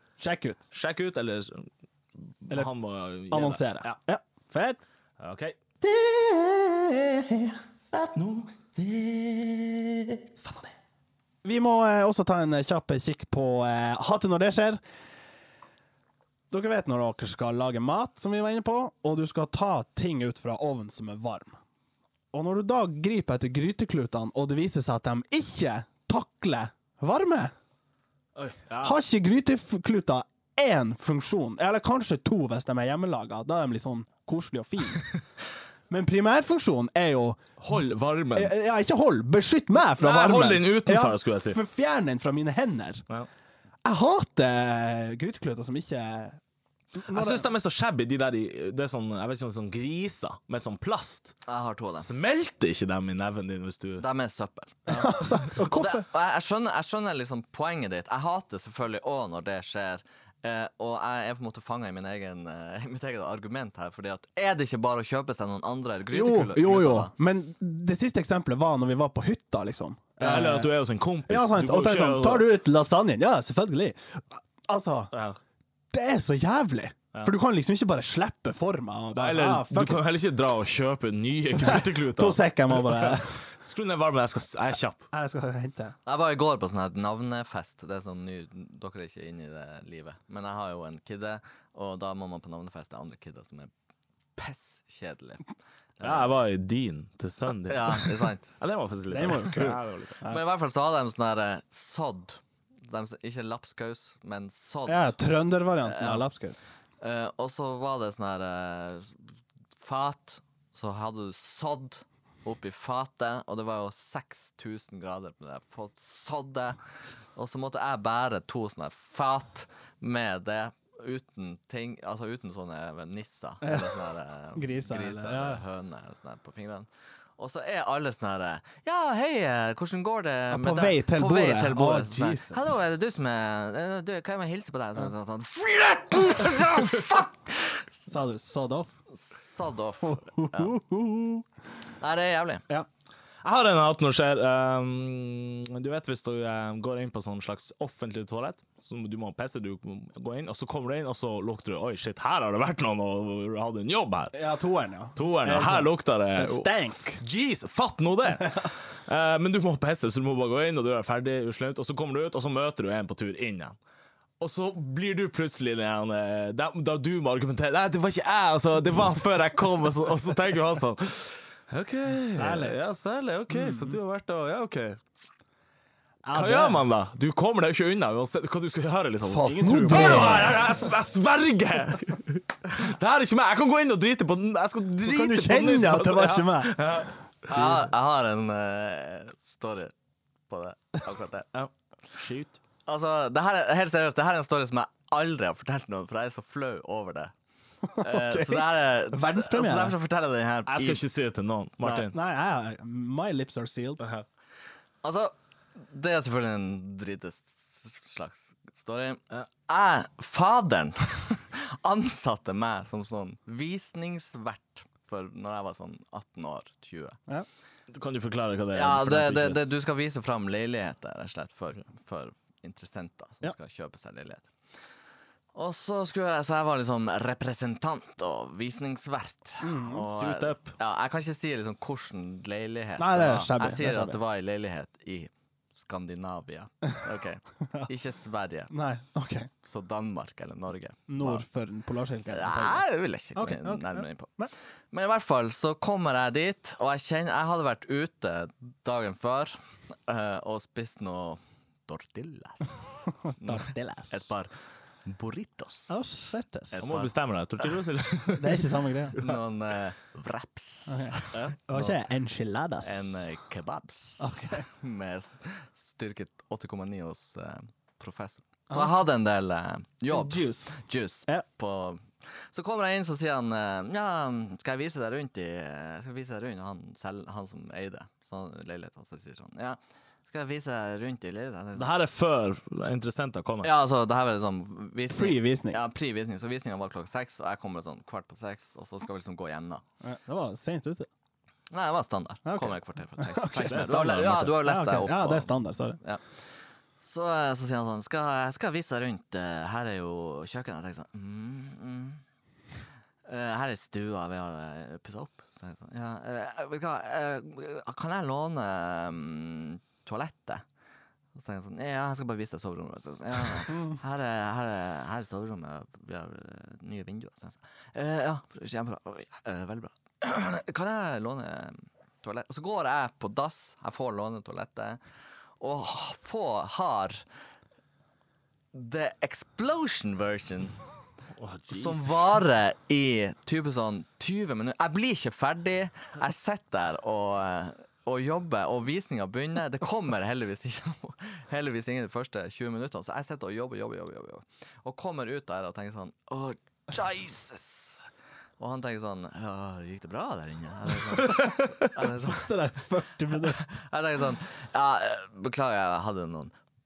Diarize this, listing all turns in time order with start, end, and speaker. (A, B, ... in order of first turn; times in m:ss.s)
0:00.2-0:00.7 A
0:00.7-0:04.0 B
0:03.3-0:04.8 A
0:05.2-0:05.6 B
0:05.8-0:07.6 A
0:07.9-0:10.3 B
0:11.4-0:14.8 A
0:16.5-0:21.6 A
0:22.3-0:27.5 A
0:28.4-0:29.0 B
0:28.8-0:35.1 A
0:35.9-0:37.4 A
0:37.6-0:38.5 B
0:38.4-0:43.0 A
0:40.0-0:41.6 B
0:43.8-0:46.4 A
0:47.0-0:47.4 A
0:47.1-0:51.3 B
0:51.5-0:52.1 C
0:51.9-0:54.0 B
0:54.0-1:07.1 C
0:54.9-0:56.1 A
1:06.1-1:10.7 A
1:10.2-1:12.5 B
1:10.2-1:10.5 C
1:11.3-1:15.1 A
1:15.1-1:15.4 B
1:15.9-1:20.0 A
1:19.2-1:25.1 B
1:21.6-1:23.4 A
1:25.1-1:26.0 A
1:26.1-1:33.7 C
1:34.4-1:36.3 C
1:36.0-1:40.2 B
1:37.6-1:38.6 C
1:39.1-1:40.4 A
1:40.2-1:45.2 C
1:44.9-1:46.7 A
1:45.9-1:46.2 C
1:47.0-1:49.2 C
1:49.8-1:56.8 C
1:57.4-2:17.8 C
2:03.6-2:04.0 A
2:04.6-2:05.6 A
2:10.5-2:12.7 A
2:18.1-2:18.9 A
2:19.1-2:20.8 C
2:20.0-2:21.4 A
2:22.0-2:22.6 C
2:23.4-2:34.3 B
2:34.3-2:37.2 A
2:35.2-2:43.8 B
2:44.4-2:55.0 B
2:52.3-2:52.8 A
2:53.5-2:54.0 A
2:56.2-2:56.8 A
2:56.3-3:07.9 B
2:59.2-3:00.6 A
3:05.0-3:06.8 A
3:07.5-3:09.9 C
3:10.5-3:11.5 C
3:11.5-3:12.6 B
3:12.9-3:17.3 C
3:17.9-3:20.0 A
3:18.0-3:21.0 C
3:20.7-3:22.2 B
3:22.0-3:24.0 A
3:24.0-3:24.2 B
3:25.0-3:37.2 C
3:37.9-3:39.6 B
3:38.7-3:44.5 C
3:45.5-3:58.7 C
3:49.6-3:50.1 A
3:50.1-3:50.7 B
3:53.0-3:54.2 A
3:58.7-3:59.5 A
3:59.6-4:01.4 C
4:01.1-4:02.8 A
4:02.3-4:04.3 C
4:03.4-4:04.5 A
4:04.9-4:14.5 C
4:13.3-4:14.2 A
4:15.1-4:16.1 C
4:15.9-4:16.8 A
4:16.7-4:17.1 C
4:16.8-4:19.4 B
4:18.4-4:19.2 A
4:19.2-4:21.5 C
4:20.9-4:23.1 A
4:21.3-4:21.8 B
4:22.8-4:41.9 C
4:24.2-4:24.7 A
4:30.2-4:30.7 A
4:41.8-4:43.7 B
4:43.6-4:49.8 C
4:45.1-4:45.8 A
4:50.0-4:51.1 A
4:51.7-4:56.4 C
4:52.5-4:56.0 A
4:53.6-4:54.5 B
4:57.0-5:02.2 C
5:03.3-5:10.6 C
5:11.4-5:25.0 C
5:25.6-5:27.2 C
5:28.7-5:30.8 C
5:31.4-5:32.4 B
5:31.7-5:48.0 C
5:48.6-5:52.5 C
5:51.2-5:51.9 B
5:52.2-5:53.7 A
5:53.4-5:56.5 C